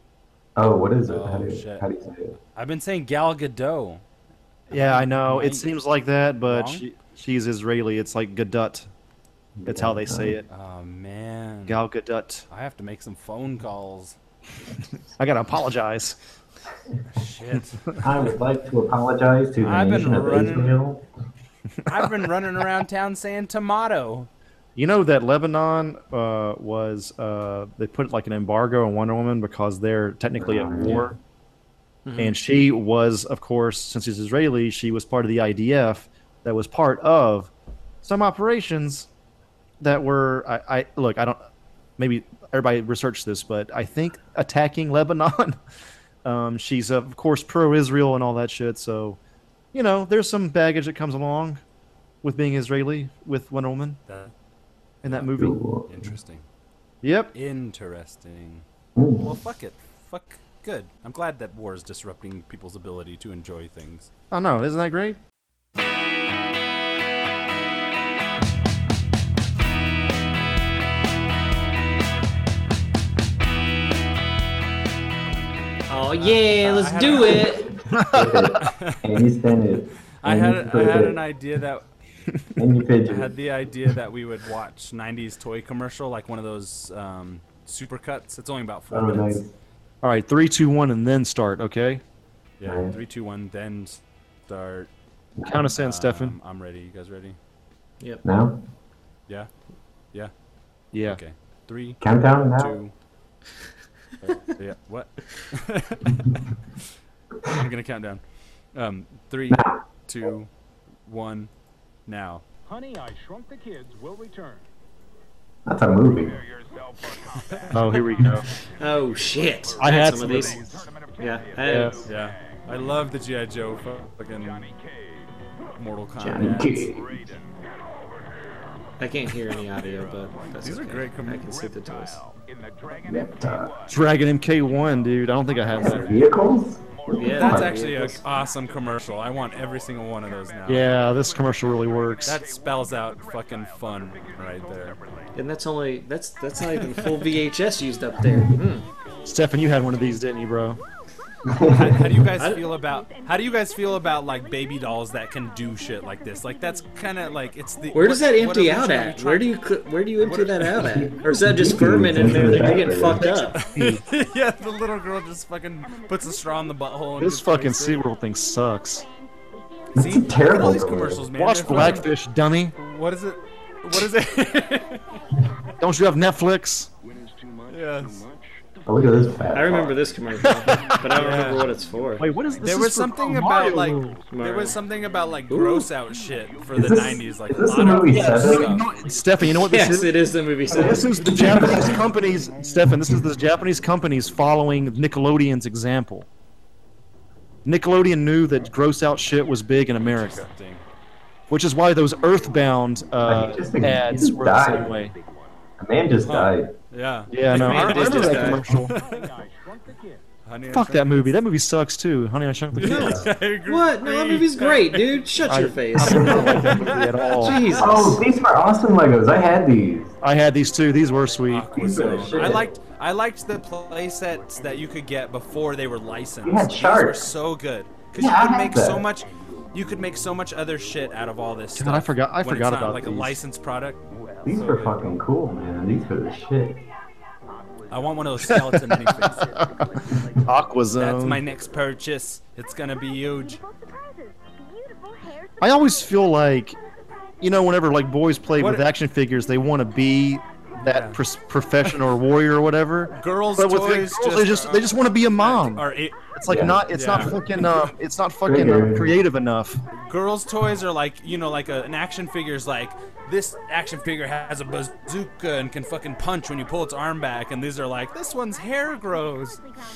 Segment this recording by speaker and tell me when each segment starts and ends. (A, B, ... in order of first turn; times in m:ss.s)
0:00.6-0:02.4 A
0:01.0-0:01.8 B
0:02.5-0:04.0 B
0:04.7-0:08.9 C
0:04.7-0:05.7 B
0:06.4-0:06.8 B
0:09.6-0:10.4 A
0:09.6-0:10.4 C
0:10.5-0:11.8 B
0:11.7-0:12.4 C
0:12.5-0:14.2 B
0:15.2-0:16.2 C
0:17.1-0:18.3 B
0:18.0-0:21.0 A
0:19.6-0:20.8 B
0:21.8-0:24.3 B
0:24.8-0:31.1 C
0:30.4-0:31.2 A
0:32.0-0:32.4 D
0:32.2-0:37.5 C
0:38.0-0:39.1 C
0:39.8-0:41.4 C
0:42.0-0:45.6 C
0:46.2-0:49.2 C
0:49.7-0:51.6 C
0:52.2-0:54.0 C
0:54.1-0:54.3 B
0:55.0-0:55.6 C
0:55.3-0:56.1 A
0:55.8-0:56.4 B
0:57.0-0:57.3 C
0:57.3-0:58.6 B
0:59.0-0:59.3 A
0:59.2-1:04.1 B
1:04.3-1:05.2 C
1:15.9-1:17.7 D
1:16.2-1:17.6 B
1:17.9-1:18.5 C
1:17.9-1:21.2 A
1:18.6-1:19.2 B
1:20.2-1:21.8 B
1:22.6-1:23.4 A
1:23.1-1:29.4 B
1:28.9-1:29.5 A
1:30.0-1:32.0 C
1:32.6-1:34.9 B
1:32.6-1:32.9 A
1:35.4-1:35.6 A
1:35.4-1:36.4 C
1:35.7-1:37.4 B
1:38.2-1:38.6 A
1:40.9-1:41.2 C
1:41.0-1:42.0 B
1:42.0-1:42.8 A
1:42.6-1:42.9 B
1:44.2-1:46.2 B
1:47.4-1:48.2 B
1:48.7-1:50.5 B
1:49.5-1:49.8 A
1:51.0-1:51.5 B
1:52.1-1:52.4 B
1:52.6-1:54.7 E
1:55.7-1:56.4 A
1:55.9-2:25.6 E
1:57.7-1:58.4 C
1:58.5-2:00.6 D
1:59.8-2:00.8 C
2:01.2-2:02.1 D
2:01.6-2:02.0 C
2:02.0-2:04.7 B
2:05.8-2:06.9 B
2:06.2-2:07.2 A
2:09.0-2:12.2 D
2:10.6-2:11.5 B
2:13.0-2:13.7 A
2:13.9-2:16.2 C
2:15.8-2:17.7 A
2:17.1-2:18.2 D
2:17.3-2:21.0 B
2:20.7-2:22.4 C
2:22.2-2:25.0 B
2:25.3-2:28.8 D
2:26.5-2:30.2 E
2:29.2-2:30.8 C
2:31.5-2:32.2 A
2:31.6-2:39.6 B
2:31.8-2:34.8 E
2:32.3-2:32.6 D
2:36.7-2:37.3 E
2:37.9-2:43.6 D
2:40.2-2:41.0 B
2:40.3-2:41.3 E
2:40.8-2:43.4 A
2:42.3-2:43.6 E
2:43.2-2:44.0 C
2:43.5-2:48.1 B
2:47.2-2:49.0 C
2:49.9-2:51.2 A
2:49.9-2:52.1 B
2:51.3-2:52.7 C
2:52.8-2:55.2 B
2:54.4-2:54.9 E
2:55.8-2:56.9 C
2:57.0-3:15.1 E
2:57.7-2:58.2 B
2:58.8-3:00.0 A
2:59.5-3:02.3 D
3:00.4-3:01.1 C
3:01.1-3:01.7 B
3:02.2-3:04.2 C
3:02.6-3:08.9 B
3:04.3-3:04.8 D
3:05.5-3:05.9 D
3:06.7-3:08.7 A
3:08.1-3:16.3 C
3:09.4-3:12.0 D
3:17.6-3:20.5 C
3:20.0-3:20.8 B
3:21.5-3:25.1 C
3:22.1-3:25.7 E
3:23.2-3:25.0 A
3:25.8-3:26.7 A
3:26.2-3:29.3 B
3:27.3-3:28.9 C
3:27.5-3:30.3 E
3:27.5-3:28.7 D
3:30.4-3:31.4 B
3:30.7-3:33.3 C
3:32.8-3:35.3 B
3:32.8-3:36.8 D
3:32.9-3:33.3 A
3:35.4-3:37.6 C
3:36.0-3:37.8 B
3:36.0-3:36.7 A
3:37.3-3:38.2 D
3:37.5-3:38.0 E
3:37.8-3:40.1 A
3:40.2-3:41.8 C
3:41.5-3:55.0 B
3:41.7-3:42.7 A
3:41.9-3:42.7 E
3:44.5-3:44.9 E
3:46.4-3:47.3 A
3:48.1-3:49.0 A
3:49.1-3:51.6 E
3:51.7-3:53.4 C
3:54.0-3:56.5 E
3:54.4-3:56.8 A
3:57.4-4:00.8 E
3:57.9-3:59.6 B
3:58.4-3:59.0 C
3:59.6-4:01.4 C
4:00.9-4:03.6 B
4:01.4-4:01.8 E
4:03.4-4:05.5 E
4:05.6-4:06.8 C
4:07.4-4:19.8 C
4:08.6-4:08.9 B
4:10.8-4:11.2 B
4:13.1-4:16.2 B
4:16.5-4:17.3 A
4:16.9-4:17.4 B
4:18.4-4:19.2 A
4:19.9-4:29.6 B